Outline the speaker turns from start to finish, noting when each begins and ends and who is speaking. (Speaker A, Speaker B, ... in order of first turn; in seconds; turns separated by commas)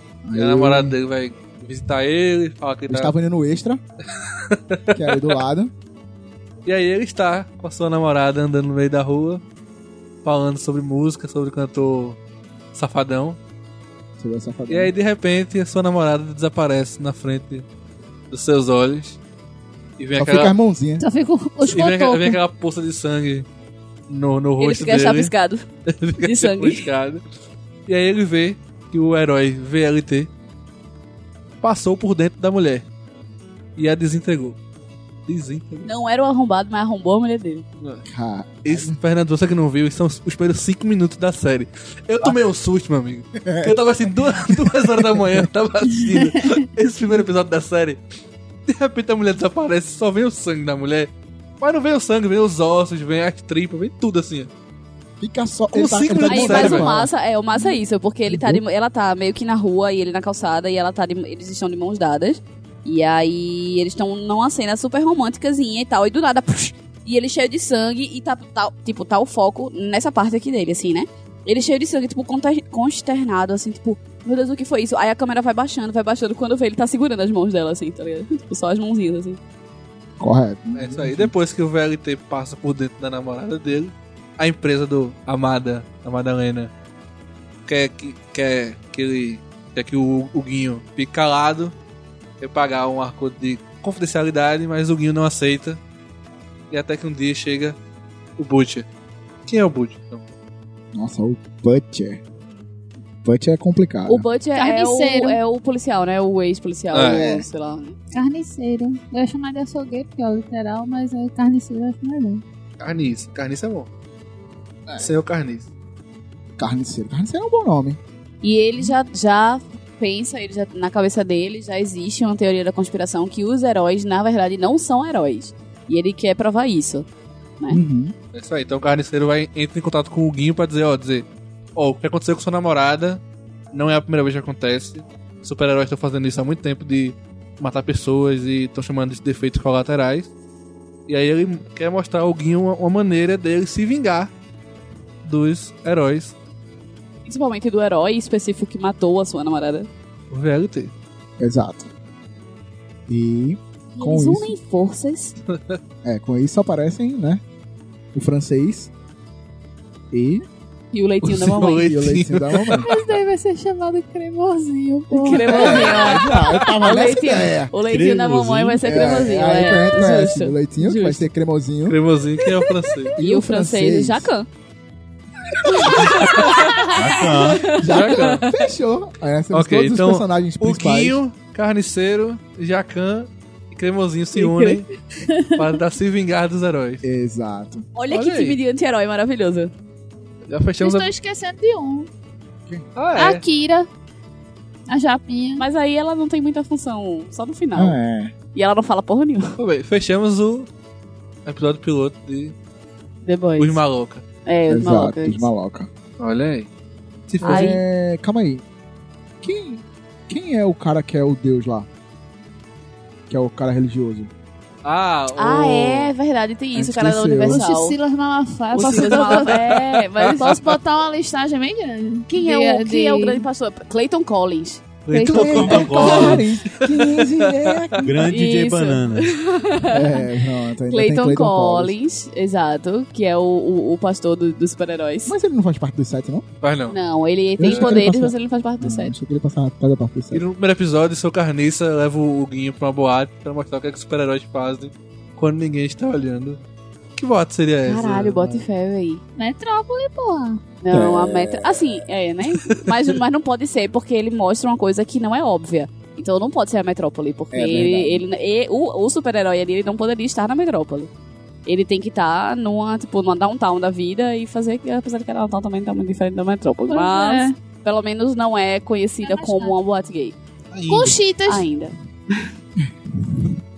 Speaker A: 0.2-1.0, Speaker B: 0.3-3.1, Speaker A: 2.9-3.8, Speaker B: 4.2-5.4, Speaker A: 4.9-5.7, Speaker B: 6.7-9.4, Speaker B: 10.2-12.2, Speaker B: 12.7-13.4, Speaker A: 14.2-14.9, Speaker B: 14.7-17.6, Speaker B: 18.3-19.2, Speaker B: 20.0-20.5, Speaker A: 20.2-21.1, Speaker C: 21.0-22.4, Speaker B: 21.6-23.5, Speaker B: 24.1-25.3, Speaker D: 24.6-25.6, Speaker B: 25.9-27.2, Speaker D: 26.2-26.9, Speaker B: 27.9-30.3, Speaker B: 31.6-32.9, Speaker B: 33.8-34.6, Speaker B: 35.3-35.9, Speaker D: 35.9-37.7, Speaker A: 38.0-39.0, Speaker B: 38.6-48.0, Speaker A: 43.5-43.7, Speaker B: 48.7-54.5, Speaker A: 55.2-57.1, Speaker B: 55.7-56.9, Speaker D: 56.3-79.4, Speaker A: 58.3-58.6, Speaker A: 80.2-81.3, Speaker B: 80.8-86.7, Speaker B: 87.7-91.7, Speaker B: 92.4-95.8, Speaker B: 96.7-97.8, Speaker B: 98.4-98.9, Speaker B: 99.5-100.2, Speaker A: 100.9-102.2, Speaker A: 103.2-104.2, Speaker D: 104.1-108.0, Speaker C: 104.5-105.4, Speaker B: 106.9-107.3, Speaker A: 107.1-107.5, Speaker C: 108.1-112.4, Speaker B: 112.8-113.9, Speaker B: 115.0-115.7, Speaker A: 116.6-118.0, Speaker D: 118.4-127.1, Speaker A: 127.7-128.1, Speaker B: 128.3-133.2, Speaker B: 133.7-140.3, Speaker B: 141.1-144.3, Speaker B: 145.2-146.3, Speaker D: 147.3-149.9, Speaker B: 150.3-150.9, Speaker A: 151.4-151.9, Speaker A: 153.1-154.6, Speaker D: 154.0-155.4, Speaker B: 155.5-155.8, Speaker A: 156.0-157.4, Speaker A: 158.1-158.9, Speaker A: 160.1-160.4, Speaker D: 160.9-161.9, Speaker B: 161.2-163.1, Speaker A: 161.6-162.9, Speaker C: 162.8-166.1, Speaker D: 165.1-171.3, Speaker A: 165.4-167.7, Speaker E: 167.8-168.8, Speaker A: 168.8-172.0, Speaker B: 171.9-173.1, Speaker A: 173.2-174.3, Speaker D: 173.2-174.5, Speaker D: 175.6-178.4, Speaker E: 176.9-177.7, Speaker A: 177.7-181.2, Speaker B: 177.9-178.5, Speaker B: 179.5-184.9, Speaker C: 185.3-185.6, Speaker B: 185.6-187.0, Speaker A: 187.0-187.9, Speaker D: 187.9-189.7, Speaker B: 188.1-188.6, Speaker B: 190.5-191.1, Speaker C: 190.8-192.1, Speaker B: 193.0-193.4, Speaker C: 193.2-193.9, Speaker C: 194.9-195.6, Speaker D: 195.6-198.0, Speaker A: 197.8-198.3, Speaker D: 198.5-199.6, Speaker B: 199.6-200.7, Speaker B: 201.5-202.6, Speaker D: 203.2-203.8, Speaker B: 203.6-204.2, Speaker D: 204.5-205.5, Speaker A: 204.7-205.9, Speaker B: 206.2-206.7, Speaker B: 207.3-207.8, Speaker A: 207.4-208.6, Speaker D: 207.4-207.8, Speaker A: 209.4-211.9, Speaker A: 213.3-214.3, Speaker B: 214.8-216.1, Speaker D: 215.3-218.0, Speaker A: 216.8-217.6, Speaker C: 217.5-219.6, Speaker D: 218.7-220.6, Speaker B: 218.8-219.5, Speaker B: 220.2-220.6, Speaker C: 220.4-223.4, Speaker D: 222.3-224.8, Speaker B: 225.1-227.8, Speaker C: 225.1-226.1, Speaker A: 225.2-228.1, Speaker E: 225.6-226.3, Speaker E: 228.0-229.3, Speaker D: 228.2-230.2, Speaker A: 229.9-231.9, Speaker D: 230.9-235.3, Speaker A: 235.3-236.4, Speaker B: 236.6-237.0, Speaker D: 236.9-239.1, Speaker A: 237.6-240.4, Speaker B: 237.6-237.9, Speaker B: 240.3-246.6, Speaker B: 247.2-248.6, Speaker D: 247.8-249.2, Speaker C: 249.4-250.6, Speaker D: 250.8-261.1, Speaker A: 250.9-252.0, Speaker A: 257.5-258.2, Speaker D: 261.6-270.4, Speaker C: 266.9-267.5, Speaker C: 269.2-269.8, Speaker E: 270.7-271.2, Speaker C: 270.9-271.6, Speaker D: 271.5-272.5